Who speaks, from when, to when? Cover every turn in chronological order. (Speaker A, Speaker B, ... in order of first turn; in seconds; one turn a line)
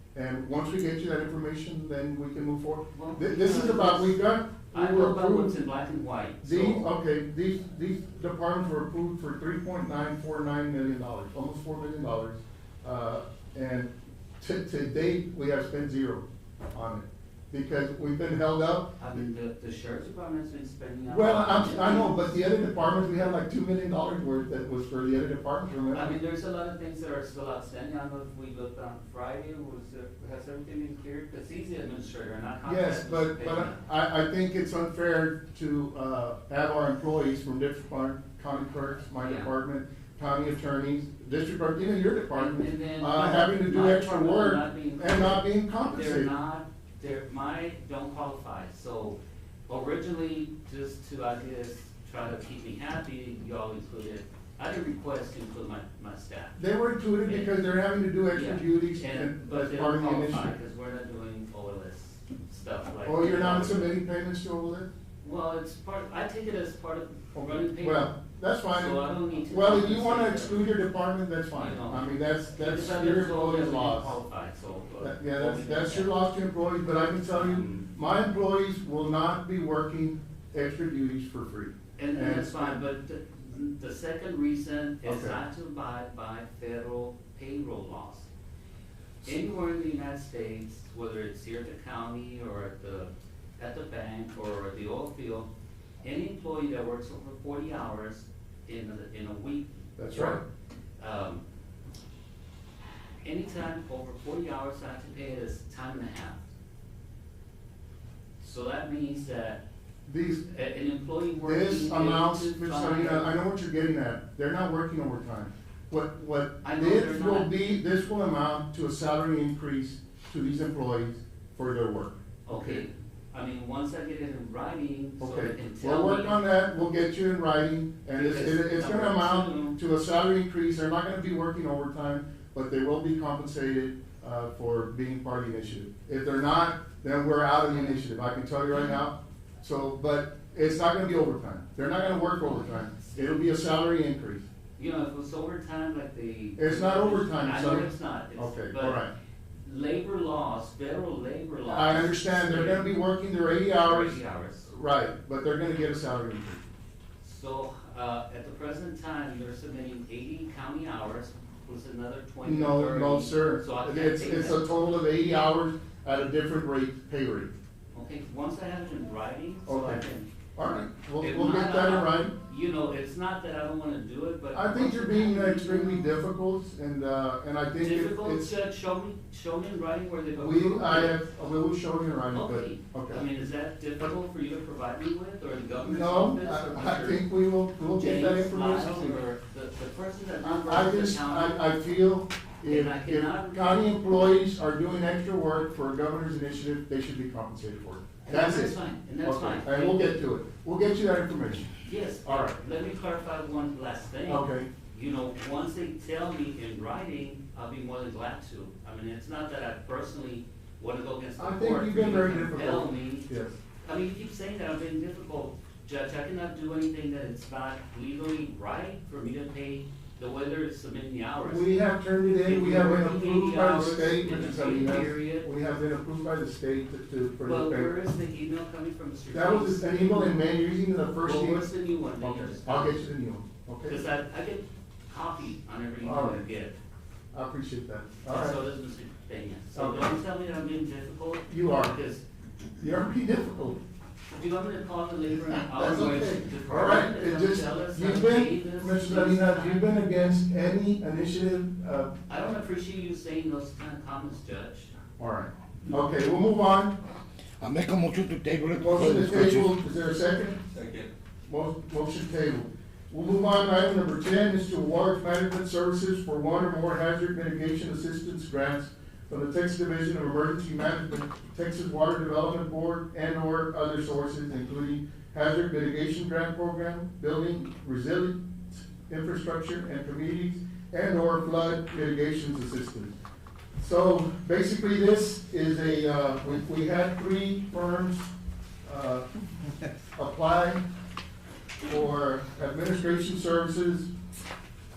Speaker A: 0.1-5.5
Speaker B: 2.9-4.2
Speaker B: 4.7-6.9
Speaker A: 6.4-18.9
Speaker B: 19.0-22.4
Speaker A: 21.1-26.1
Speaker B: 25.9-33.8
Speaker A: 32.6-46.3
Speaker B: 39.2-39.5
Speaker B: 42.3-49.2
Speaker B: 49.7-56.6
Speaker A: 56.6-60.5
Speaker B: 57.2-57.7
Speaker B: 58.3-64.0
Speaker A: 63.0-64.9
Speaker B: 65.2-68.1
Speaker A: 67.3-69.0
Speaker B: 68.7-70.8
Speaker A: 69.5-74.2
Speaker B: 71.5-76.1
Speaker A: 75.0-82.8
Speaker B: 77.3-77.8
Speaker B: 82.0-88.3
Speaker A: 85.0-85.4
Speaker B: 89.2-95.5
Speaker B: 96.0-100.4
Speaker A: 100.0-100.4
Speaker B: 101.0-101.4
Speaker B: 103.2-106.4
Speaker B: 108.4-109.6
Speaker A: 110.1-110.4
Speaker B: 110.4-113.3
Speaker A: 111.4-122.8
Speaker B: 116.6-117.5
Speaker B: 122.5-126.4
Speaker A: 125.2-144.4
Speaker B: 128.1-129.8
Speaker B: 144.8-149.0
Speaker A: 146.6-149.1
Speaker B: 149.6-152.9
Speaker A: 151.6-156.6
Speaker B: 153.8-154.7
Speaker B: 157.2-164.7
Speaker A: 162.4-167.5
Speaker B: 167.9-170.3
Speaker A: 169.7-170.0
Speaker A: 170.6-172.3
Speaker B: 171.2-176.1
Speaker A: 174.5-178.5
Speaker B: 177.8-181.2
Speaker A: 180.3-183.2
Speaker B: 182.3-187.2
Speaker A: 185.8-189.2
Speaker B: 187.9-191.6
Speaker A: 190.4-201.7
Speaker B: 192.7-194.3
Speaker B: 198.2-200.2
Speaker B: 201.8-213.3
Speaker A: 202.2-202.6
Speaker A: 204.3-204.7
Speaker A: 211.4-213.5
Speaker B: 213.8-221.8
Speaker A: 221.4-227.9
Speaker B: 222.4-225.5
Speaker B: 227.4-230.4
Speaker A: 229.3-234.0
Speaker B: 231.2-233.0
Speaker B: 233.8-236.8
Speaker A: 236.0-236.4
Speaker A: 237.3-238.6
Speaker B: 238.3-242.2
Speaker A: 239.7-240.2
Speaker A: 241.5-241.9
Speaker A: 242.8-243.8
Speaker B: 244.3-249.8
Speaker A: 245.5-252.1
Speaker B: 252.3-254.9
Speaker A: 255.2-257.0
Speaker C: 257.6-259.7
Speaker A: 258.7-260.6
Speaker A: 261.5-283.1
Speaker A: 283.8-288.3
Speaker A: 288.8-289.2
Speaker A: 290.1-290.8
Speaker A: 291.8-294.1